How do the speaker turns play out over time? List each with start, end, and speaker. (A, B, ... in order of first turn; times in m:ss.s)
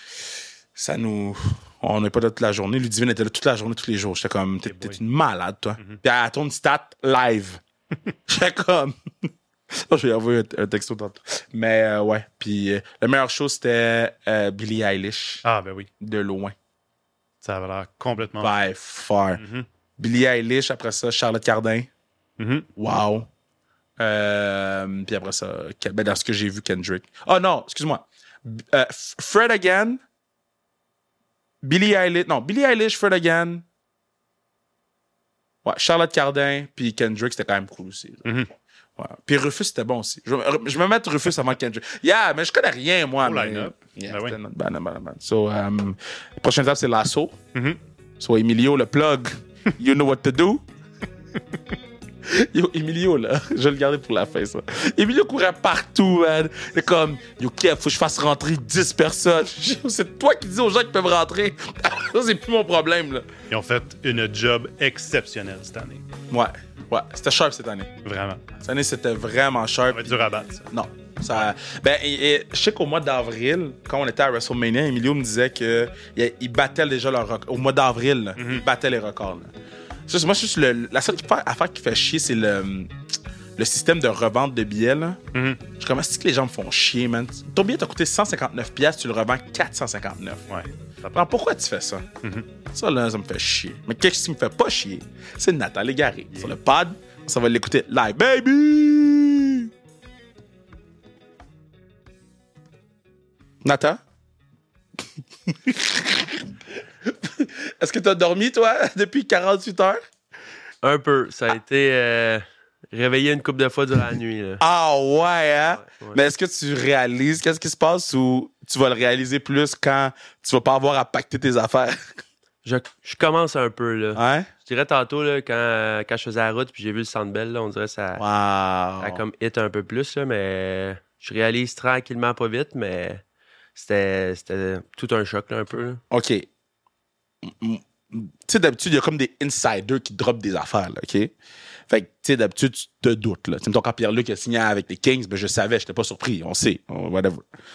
0:00.8-0:07.6 A
0:04.7-0:05.0 B
0:08.3-0:09.0 A
0:09.7-0:15.4 A
0:15.4-0:15.9 B
0:16.0-0:16.6 A
0:17.4-0:18.5 B
0:18.4-0:19.4 A
0:19.4-0:19.7 B
0:20.0-0:21.9 A
0:22.4-0:22.7 B
0:22.8-0:23.3 A
0:24.0-0:30.0 A
0:31.6-0:33.6 A
0:35.6-0:38.2 A
0:39.0-0:47.4 A
0:43.2-0:44.4 B
0:48.2-0:50.6 A
0:52.3-1:03.3 A
1:03.5-1:06.0 B
1:06.3-1:07.9 A
1:08.0-1:08.4 B
1:08.6-1:10.2 A
1:09.9-1:10.7 B
1:10.7-1:19.5 A
1:18.4-1:18.6 B
1:20.1-1:22.9 A
1:23.6-1:25.2 A
1:25.3-1:25.6 B
1:25.8-1:30.5 A
1:30.5-1:31.2 B
1:31.1-1:32.1 A
1:32.7-1:39.7 A
1:43.6-1:44.0 A
1:45.5-1:50.0 A
1:50.8-1:54.6 C
1:54.6-2:02.1 A
1:55.7-1:56.2 C
2:02.6-2:08.2 C
2:04.2-2:04.5 A
2:08.2-2:09.2 A
2:09.0-2:13.2 C
2:13.8-2:16.0 C
2:16.1-2:16.5 A
2:17.4-2:21.3 A
2:21.9-2:27.5 A